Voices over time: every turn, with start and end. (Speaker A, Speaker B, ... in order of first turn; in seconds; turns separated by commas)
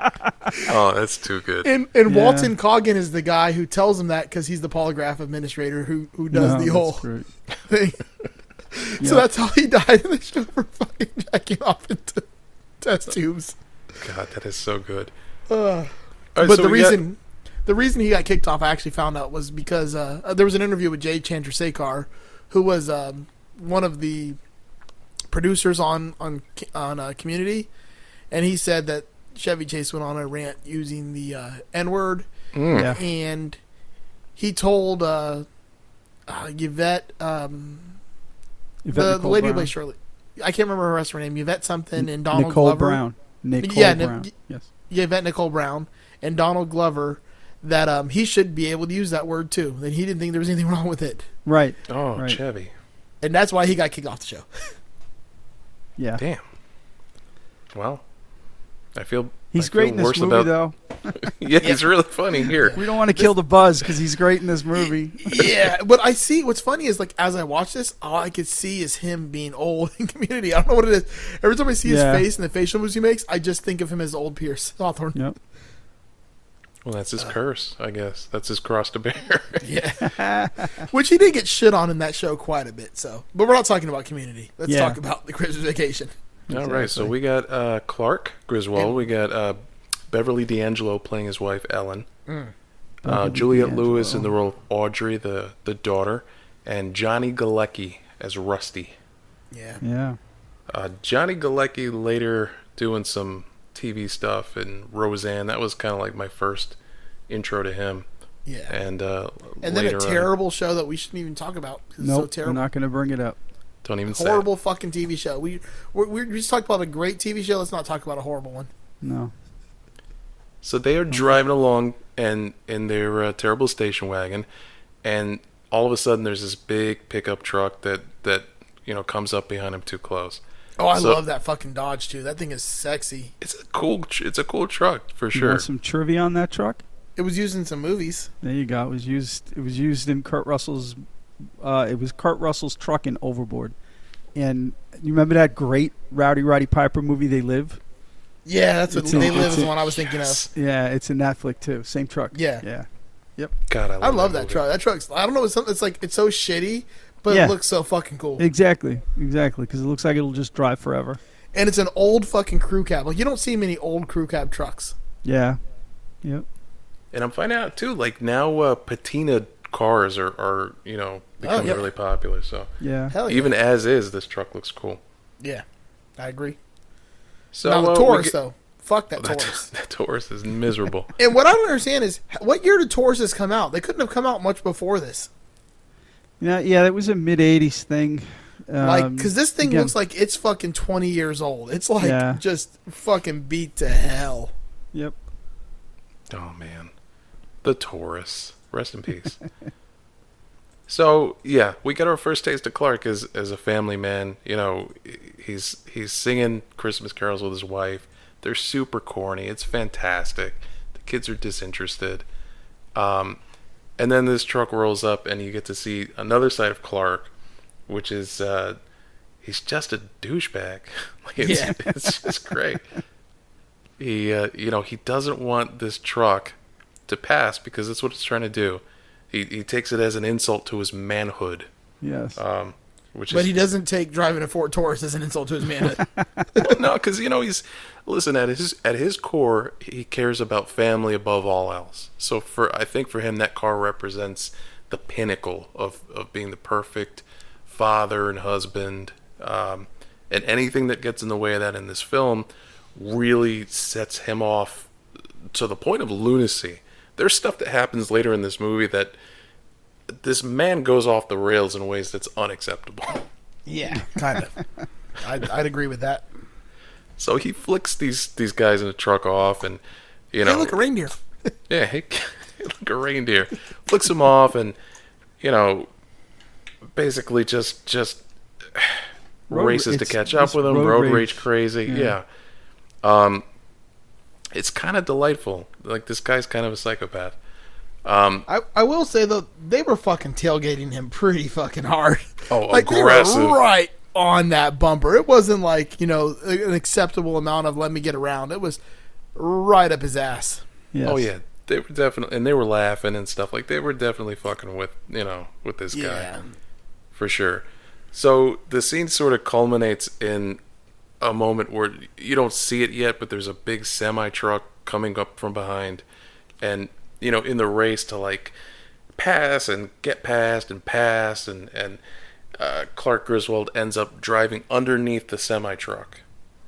Speaker A: 0.7-1.7, Speaker B: 1.6-7.0, Speaker C: 2.1-2.5, Speaker C: 6.3-7.3, Speaker B: 7.7-8.0, Speaker B: 8.7-12.2, Speaker C: 9.0-9.2, Speaker B: 12.8-13.6, Speaker A: 14.0-15.1, Speaker B: 15.5-24.4, Speaker A: 16.4-17.0, Speaker B: 25.3-27.7, Speaker B: 28.3-33.6, Speaker A: 32.5-32.9, Speaker B: 34.4-35.5, Speaker B: 36.3-38.0, Speaker C: 38.9-39.7, Speaker B: 38.9-43.0, Speaker C: 42.0-44.7, Speaker B: 43.6-44.3, Speaker B: 44.9-51.3, Speaker C: 51.5-52.4, Speaker A: 51.9-52.7, Speaker B: 53.2-54.5, Speaker C: 56.0-56.2, Speaker A: 56.2-56.4, Speaker A: 57.7-58.0, Speaker A: 59.0-60.5, Speaker C: 59.5-61.3, Speaker A: 61.2-62.8, Speaker B: 61.6-61.9, Speaker B: 62.4-63.3, Speaker C: 62.8-65.5, Speaker B: 65.2-75.2, Speaker C: 71.8-72.2, Speaker A: 76.8-79.6, Speaker B: 79.6-80.2, Speaker C: 80.0-80.8, Speaker B: 80.8-86.1, Speaker C: 84.7-85.0, Speaker A: 86.5-92.1, Speaker C: 86.5-87.1, Speaker B: 88.8-89.1, Speaker B: 92.3-92.5, Speaker C: 93.0-94.3, Speaker A: 93.0-99.0, Speaker B: 99.5-99.8, Speaker C: 99.8-100.2, Speaker A: 100.7-106.8, Speaker A: 107.3-108.1, Speaker B: 108.5-108.8, Speaker A: 108.7-110.3, Speaker B: 109.6-112.6, Speaker C: 112.0-113.4, Speaker A: 113.8-114.5, Speaker B: 114.1-118.7, Speaker C: 119.0-119.3, Speaker A: 120.6-124.5, Speaker A: 125.0-130.4, Speaker B: 130.8-133.3, Speaker A: 130.9-131.2, Speaker A: 133.4-135.7, Speaker C: 135.3-136.8, Speaker B: 137.2-138.3, Speaker C: 138.4-141.0, Speaker C: 141.6-143.7, Speaker C: 144.3-147.8, Speaker B: 148.5-150.4, Speaker C: 148.9-149.7, Speaker A: 149.2-150.5, Speaker C: 150.5-153.5, Speaker B: 152.3-152.6, Speaker A: 153.7-154.6, Speaker B: 154.0-158.4, Speaker C: 157.3-157.6, Speaker C: 158.4-161.2, Speaker B: 161.5-164.9, Speaker C: 165.2-165.6, Speaker A: 167.1-172.7, Speaker B: 171.4-171.9, Speaker C: 172.8-173.2, Speaker B: 173.1-173.5, Speaker A: 173.2-175.0, Speaker B: 176.2-176.6, Speaker A: 177.5-178.3, Speaker B: 177.7-179.7, Speaker A: 179.2-181.1, Speaker B: 181.2-185.3, Speaker C: 186.4-189.9, Speaker B: 188.8-194.5, Speaker C: 192.0-192.4, Speaker A: 196.3-196.9, Speaker A: 197.6-199.4, Speaker A: 200.9-212.2, Speaker A: 212.9-213.4, Speaker A: 214.0-217.3, Speaker A: 217.9-218.8, Speaker A: 219.4-222.8, Speaker B: 221.4-221.8, Speaker C: 221.8-222.3, Speaker A: 224.0-226.6, Speaker A: 227.1-231.7, Speaker C: 232.0-232.4, Speaker A: 232.4-233.6, Speaker B: 233.3-236.7, Speaker A: 236.6-254.9, Speaker A: 255.5-259.1, Speaker A: 260.1-263.3, Speaker B: 263.7-264.6, Speaker B: 265.2-266.3, Speaker A: 267.2-269.8, Speaker A: 270.3-270.8, Speaker B: 270.4-271.5, Speaker A: 271.7-274.8, Speaker A: 275.4-275.9, Speaker A: 276.9-282.2, Speaker C: 279.5-282.2, Speaker A: 283.0-283.5, Speaker A: 284.5-287.4, Speaker A: 288.0-288.5, Speaker B: 288.5-298.8, Speaker A: 292.5-293.6, Speaker B: 299.4-300.6, Speaker C: 300.9-301.3, Speaker A: 301.0-306.4, Speaker B: 305.9-306.5, Speaker A: 307.1-310.6, Speaker A: 311.2-316.0, Speaker A: 316.6-318.6, Speaker A: 319.2-322.0, Speaker A: 322.6-326.2